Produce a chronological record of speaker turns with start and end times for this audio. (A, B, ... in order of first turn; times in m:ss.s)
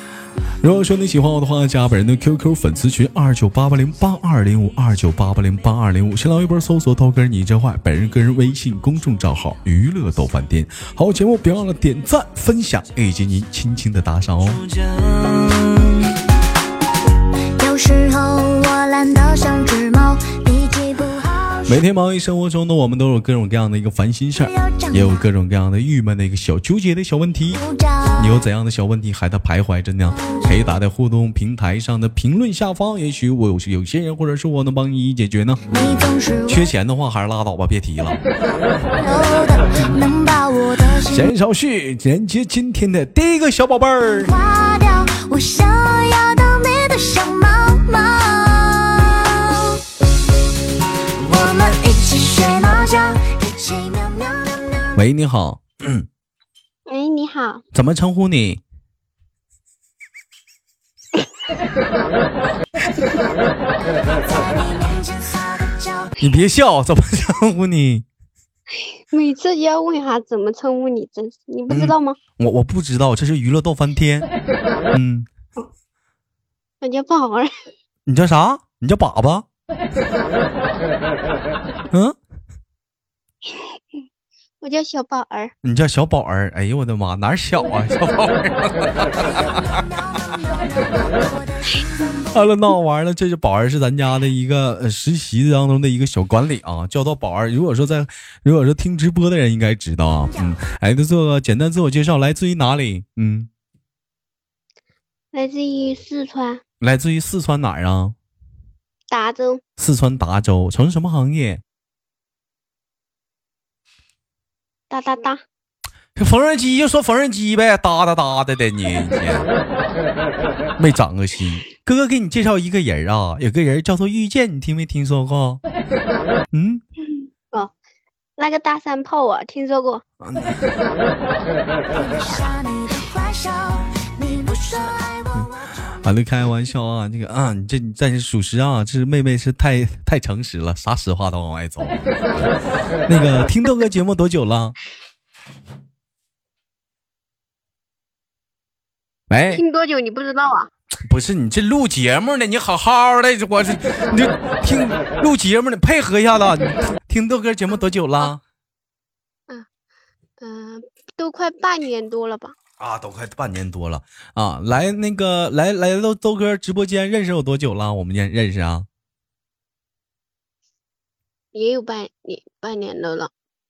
0:00.6-0:16.0 A
0:17.6-0:21.8 B
0:21.7-0:27.6 A
0:24.4-0:25.2 B
0:27.5-0:28.4 B
0:28.2-0:35.8 A
0:30.1-0:30.6 B
0:35.7-0:36.7 B
0:36.5-0:38.2 A
0:39.0-0:41.3 B
0:41.0-0:44.4 A
0:44.2-0:49.8 B
0:51.1-0:55.0 B
0:55.0-0:56.1 A
0:56.9-0:57.6 C
0:57.7-0:58.6 A
1:03.9-1:06.2 B
1:06.2-1:08.0 A
1:09.1-1:12.2 C
1:11.7-1:14.3 A
1:14.9-1:15.3 A
1:16.8-1:17.5 C
1:18.1-1:19.5 A
1:21.9-1:22.2 A
1:24.6-1:25.5 C
1:25.6-1:29.8 A
1:29.3-1:32.5 B
1:32.3-1:43.5 A
1:45.3-1:46.6 C
1:46.8-1:48.2 A
1:49.1-1:49.6 C
1:49.8-1:51.6 A
1:54.9-1:55.4 C
1:56.2-1:59.5 A
2:00.8-2:05.6 A
2:06.5-2:06.8 A
2:07.2-2:07.7 C
2:08.4-2:10.0 C
2:10.2-2:10.6 A
2:11.9-2:15.9 B
2:16.0-2:22.5 A
2:23.1-2:24.8 A
2:29.3-2:29.6 A
2:29.5-2:30.7 C
2:31.0-2:38.4 A
2:40.4-2:42.6 C
2:42.8-2:48.9 A
2:51.5-2:53.3 C